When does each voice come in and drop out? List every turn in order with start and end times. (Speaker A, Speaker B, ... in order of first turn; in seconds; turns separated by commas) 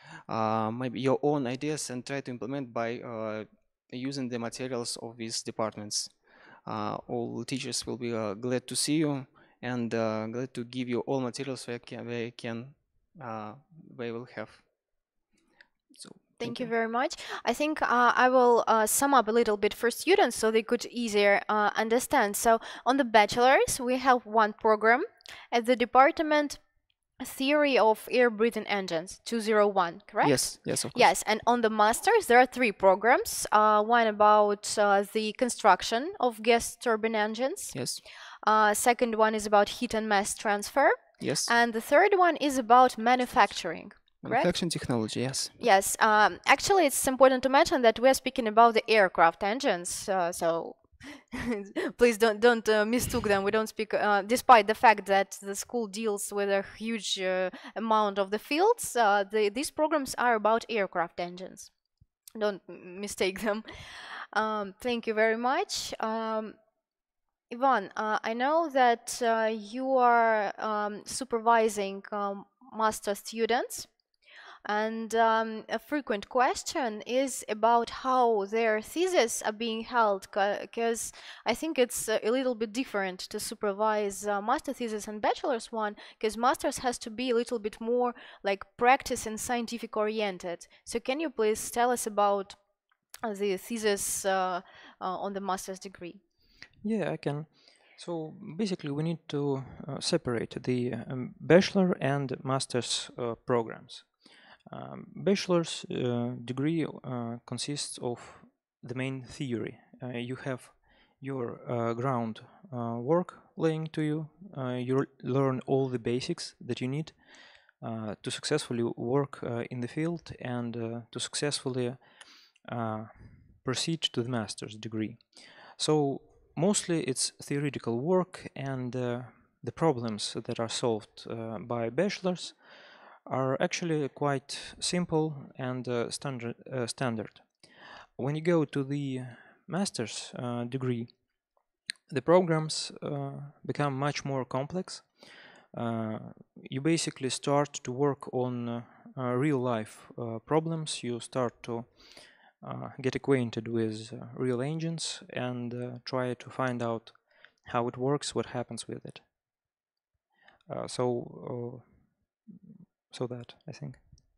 Speaker A: 0.3-6.1, Speaker A: 6.7-14.6, Speaker A: 15.9-16.7, Speaker B: 16.4-26.6, Speaker B: 27.2-37.8, Speaker A: 30.2-31.1, Speaker A: 37.7-38.0, Speaker B: 38.4-44.5, Speaker A: 41.2-41.5, Speaker A: 44.2-45.5, Speaker B: 45.6-61.7, Speaker B: 62.3-66.6, Speaker B: 67.5-73.9, Speaker B: 74.6-92.6, Speaker B: 93.2-96.2, Speaker C: 96.8-104.1, Speaker C: 104.7-117.2, Speaker C: 117.8-122.0, Speaker C: 122.6-132.6, Speaker C: 133.2-137.5, Speaker C: 138.2-141.1, Speaker C: 142.1-159.2, Speaker C: 160.7-161.9, Speaker C: 163.1-164.0